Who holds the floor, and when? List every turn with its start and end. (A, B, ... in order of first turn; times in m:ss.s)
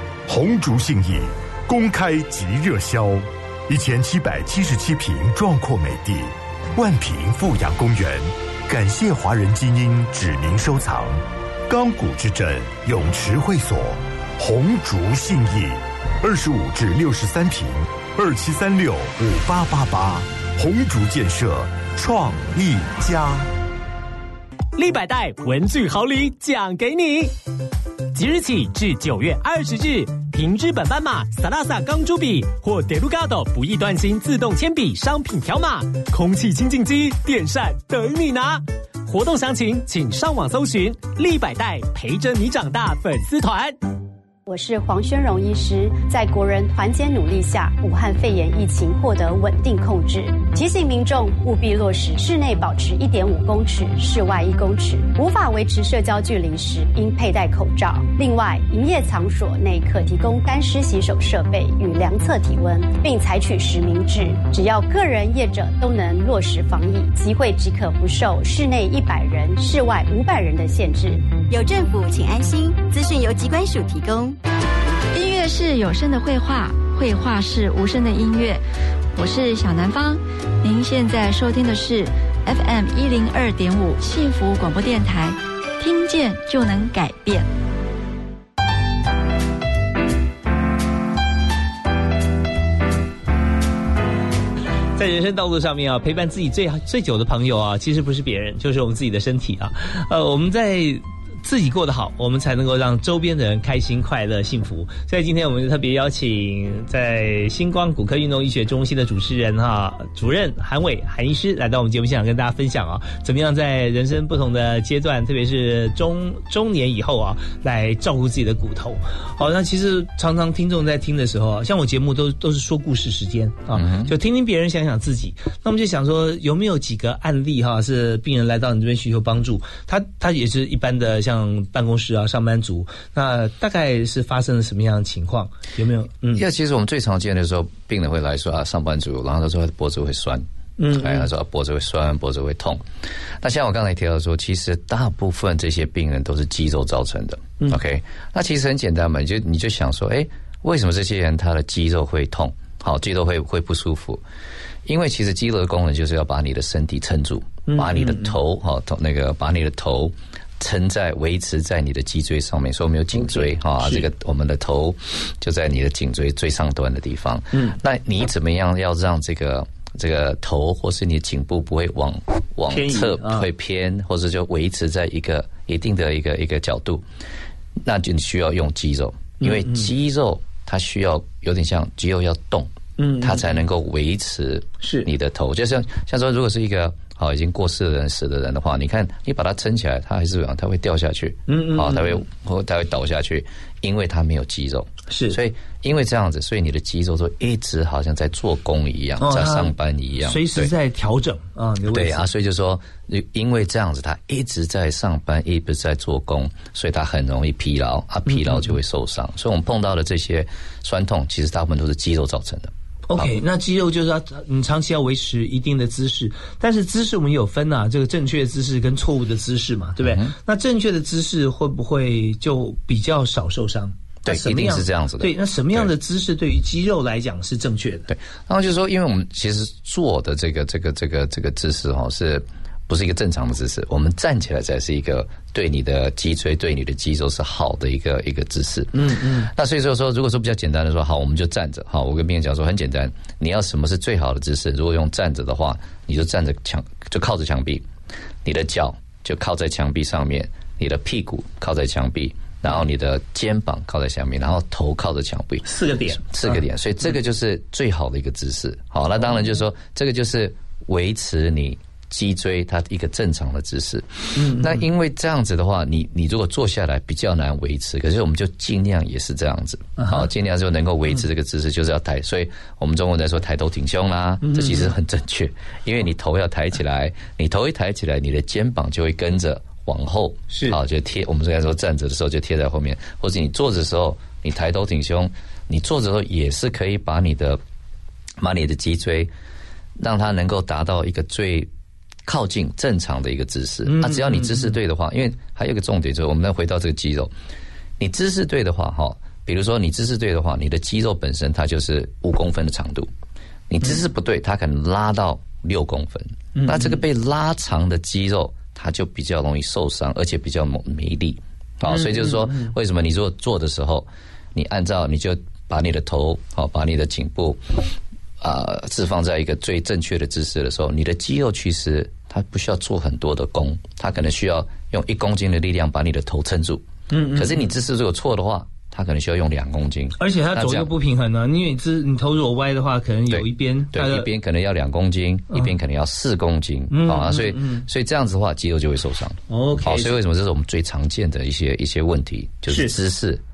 0:00.3-0:23.5 A
0:24.8-0:27.3 B
0:28.1-0:43.8 B
0:44.5-1:11.2 C
1:11.5-1:14.4 D
1:15.1-1:18.6 E
1:19.2-1:27.5 E
1:35.0-2:16.4 F
2:03.7-2:04.1 G
2:16.3-2:22.8 G
2:20.8-2:21.3 F
2:23.4-2:34.2 G
2:34.8-2:57.0 G
2:37.7-2:38.3 F
2:43.1-2:44.1 F
2:52.7-2:53.5 F
2:57.8-3:20.7 G
2:59.4-2:59.9 F
3:03.0-3:03.6 F
3:04.8-3:05.1 F
3:11.5-3:12.2 F
3:15.1-3:15.4 F
3:19.2-3:22.2 F
3:21.9-3:33.3 G
3:28.3-3:28.8 F
3:33.1-3:48.1 F
3:40.0-3:40.3 G
3:44.2-3:45.9 G
3:48.1-4:07.9 G
3:58.9-3:59.5 F
4:08.4-4:47.6 G
4:15.6-4:16.6 F
4:24.4-4:24.8 F
4:30.0-4:30.2 F
4:34.4-4:34.9 F
4:40.5-4:40.8 F
4:48.4-4:49.3 G
4:50.0-4:51.7 G
4:52.2-4:57.3 G
4:53.9-4:54.8 F
4:58.0-5:03.1 G
5:03.7-5:17.6 G
5:06.5-5:07.0 F
5:11.9-5:12.7 F
5:18.4-5:30.9 G
5:27.1-5:27.7 F
5:30.2-5:34.3 F
5:33.3-5:43.4 G
5:36.9-5:37.8 F
5:39.5-5:40.1 F
5:42.7-5:43.0 F